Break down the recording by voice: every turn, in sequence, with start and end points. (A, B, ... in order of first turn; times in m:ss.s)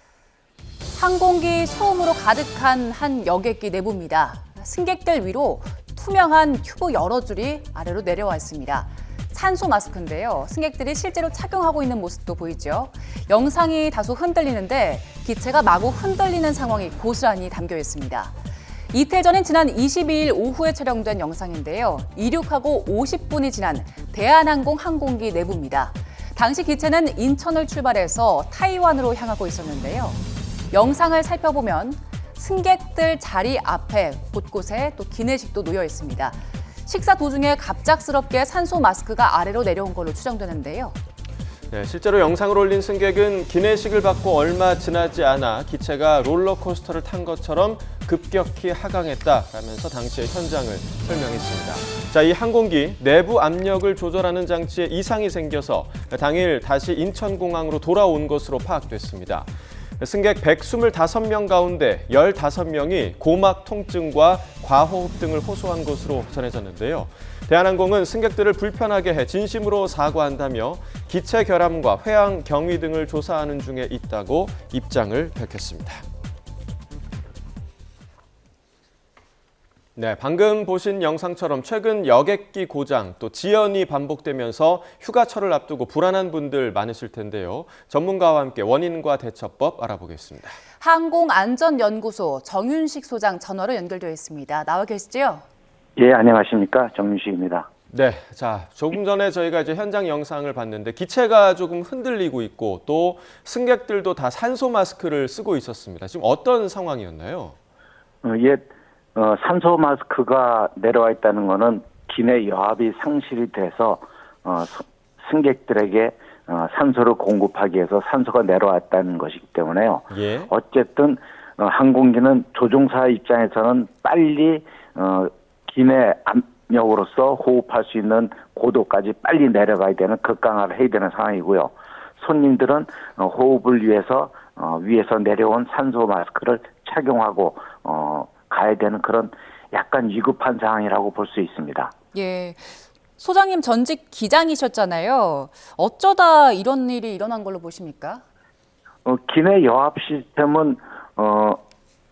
0:00.9-0:18.4 A
0:18.9-0:41.0 A
0:41.7-1:16.0 B
1:20.0-1:30.5 B
1:30.8-1:35.4 A
1:36.0-1:37.7 C
1:37.9-1:47.6 B
1:48.2-2:21.9 C
2:00.1-2:00.5 B
2:22.1-2:28.2 A
2:29.0-2:31.6 C